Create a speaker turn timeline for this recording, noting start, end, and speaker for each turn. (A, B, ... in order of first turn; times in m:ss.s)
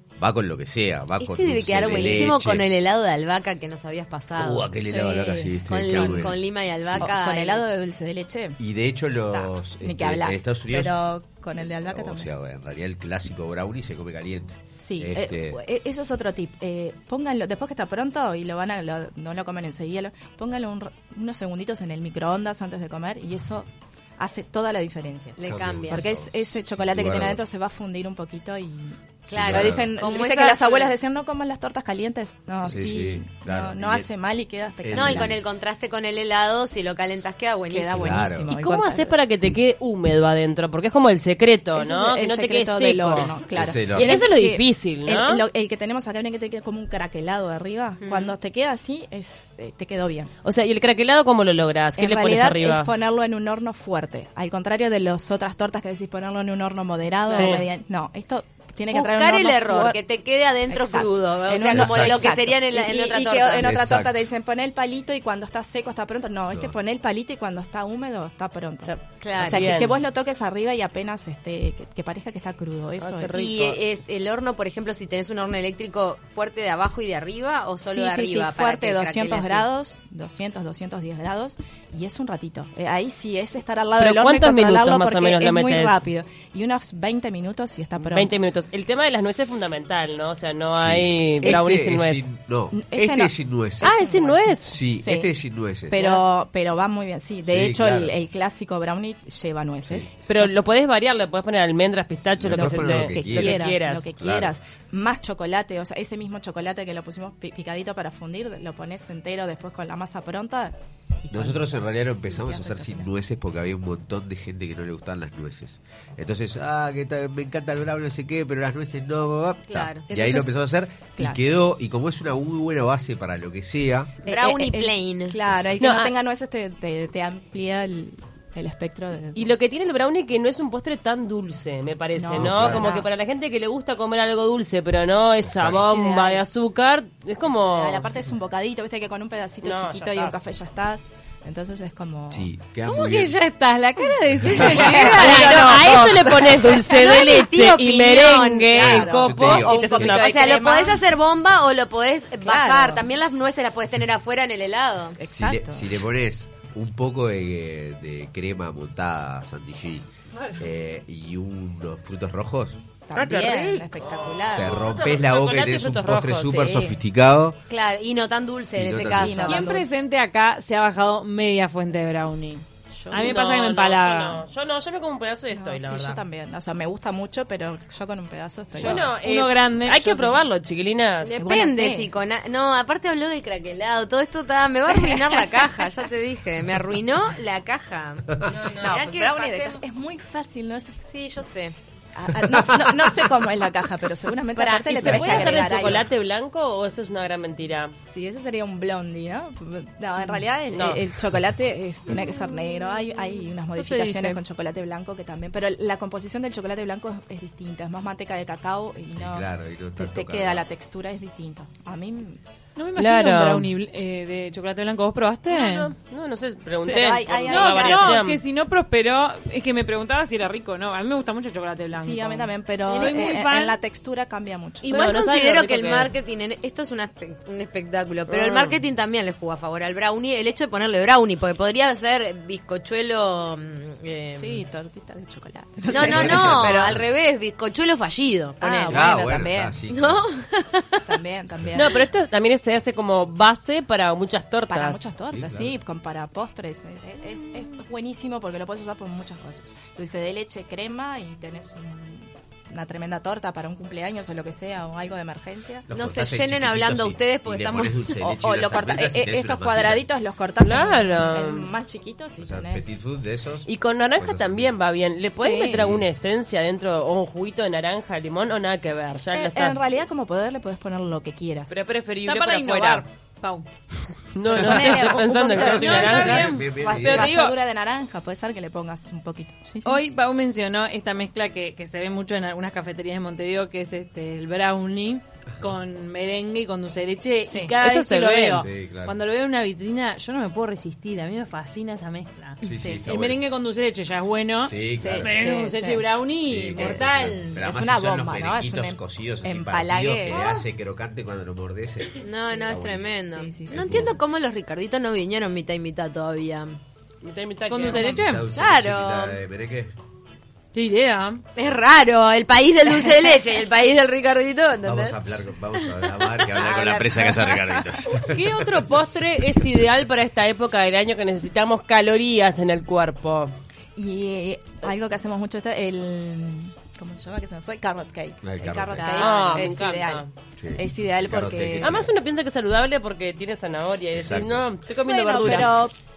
0:00.2-0:02.7 A
0:01.2-0:04.7 B
0:01.8-0:02.3 C
0:04.4-0:07.1 A
0:04.8-0:06.3 C
0:05.7-0:07.6 B
0:07.0-0:08.6 C
0:08.6-0:11.0 A
0:09.3-0:12.3 C
0:11.8-0:15.6 A
0:14.8-0:25.4 C
0:25.4-0:26.0 B
0:25.5-0:27.4 A
0:25.9-0:35.4 C
0:29.3-0:30.9 B
0:29.4-0:29.9 A
0:32.6-0:34.1 A
0:34.8-0:35.4 A
0:34.9-0:38.3 B
0:37.7-0:39.2 C
0:37.9-0:38.5 A
0:38.5-0:43.4 D
0:41.8-0:50.3 C
0:43.5-0:44.2 A
0:43.9-0:45.4 D
0:48.0-0:48.3 B
0:50.4-0:52.9 D
0:52.0-1:00.0 C
0:57.3-0:57.6 B
0:57.3-0:57.6 D
0:58.9-1:03.7 B
1:00.7-1:13.4 C
1:01.7-1:02.3 A
1:03.6-1:04.2 A
1:08.9-1:09.7 B
1:09.4-1:09.7 A
1:09.5-1:10.0 D
1:13.0-1:13.8 D
1:13.3-1:19.7 B
1:17.9-1:28.3 C
1:24.0-1:26.0 D
1:28.0-1:32.3 D
1:30.7-1:33.9 A
1:32.7-1:35.3 C
1:33.8-1:34.8 D
1:34.7-1:36.2 A
1:35.9-1:40.6 C
1:37.5-1:38.2 A
1:40.3-1:44.1 D
1:42.4-1:44.5 A
1:42.5-1:53.1 C
1:51.3-2:04.1 A
1:59.7-2:00.0 B
2:00.1-2:00.6 C
2:04.2-2:09.5 C
2:04.3-2:05.4 B
2:05.8-2:06.2 D
2:09.4-2:18.1 D
2:12.2-2:13.1 C
2:12.4-2:13.0 A
2:15.4-2:15.8 A
2:15.7-2:16.4 C
2:17.4-2:22.5 C
2:19.6-2:20.4 D
2:22.3-2:23.4 A
2:22.9-2:25.9 E
2:24.4-2:24.8 A
2:24.4-2:26.0 C
2:24.8-2:29.2 B
2:25.0-2:30.6 D
2:28.7-2:30.1 A
2:28.8-2:31.0 C
2:30.0-2:35.2 B
2:32.4-2:33.3 C
2:35.2-2:36.0 C
2:35.3-2:42.8 A
2:43.1-2:45.2 C
2:43.2-2:46.7 D
2:44.5-2:47.6 A
2:46.5-2:47.0 C
2:47.7-2:49.6 B
2:48.8-2:49.6 A
2:49.1-2:49.9 C
2:49.4-2:54.5 E
2:52.9-2:53.4 B
2:53.1-2:56.2 D
2:55.5-2:59.1 C
2:58.8-3:01.4 D
2:58.8-3:00.4 E
3:01.2-3:09.8 B
3:01.4-3:02.1 C
3:05.1-3:05.4 C
3:08.5-3:09.0 D
3:08.8-3:11.0 C
3:11.1-3:11.8 B
3:12.2-3:16.1 C
3:12.5-3:13.1 A
3:14.5-3:17.9 D
3:15.1-3:15.6 B
3:18.1-3:29.5 C
3:20.7-3:21.0 D
3:23.8-3:24.4 B
3:29.2-3:30.6 A
3:30.0-3:32.4 C
3:32.8-3:35.9 E
3:33.0-3:33.7 D
3:35.5-3:38.4 D
3:36.8-3:38.2 C
3:37.3-3:43.8 E
3:41.9-3:45.0 C
3:42.9-3:43.2 B
3:44.8-3:54.6 B
3:44.9-3:46.2 D
3:48.3-3:48.8 D
3:54.4-3:56.9 C
3:55.9-3:59.1 B
3:55.9-3:57.1 A
3:58.6-3:59.8 C
3:58.9-4:00.3 A
3:59.9-4:01.0 B
4:01.1-4:01.9 C
4:01.8-4:05.1 D
4:04.7-4:15.9 C
4:05.3-4:05.7 A
4:15.9-4:20.1 A
4:15.9-4:18.0 B
4:18.2-4:22.8 C
4:20.6-4:21.7 D
4:22.4-4:24.8 A
4:23.7-4:29.8 D
4:25.4-4:25.8 C
4:25.7-4:26.1 A
4:29.3-4:31.7 C
4:31.7-4:33.1 D
4:32.2-4:33.7 E
4:34.3-4:36.5 D
4:34.5-4:40.0 C
4:34.6-4:37.6 E
4:36.0-4:37.3 A
4:39.8-4:57.6 E
4:47.5-4:47.8 C
4:47.8-4:48.7 D
4:48.6-4:49.2 A
4:52.6-4:53.4 A
4:54.7-4:55.4 A
4:55.0-4:56.2 C
4:56.4-5:03.1 A
4:56.8-5:00.6 C
5:02.2-5:06.8 B
5:03.3-5:04.1 C
5:03.6-5:04.2 A
5:07.2-5:08.1 D
5:07.7-5:08.5 E
5:07.9-5:10.0 A
5:08.5-5:09.4 B
5:10.8-5:11.4 E
5:11.6-5:15.1 B
5:14.8-5:18.4 A
5:15.8-5:17.6 B
5:16.9-5:18.1 C
5:18.3-5:23.5 D
5:24.0-5:30.2 C
5:28.4-5:29.2 A
5:29.0-5:29.8 B
5:29.2-5:30.3 D
5:30.6-5:32.1 A
5:30.8-5:32.0 C
5:31.8-5:35.9 D
5:34.1-5:34.7 A
5:35.0-5:35.9 C
5:35.4-5:35.7 A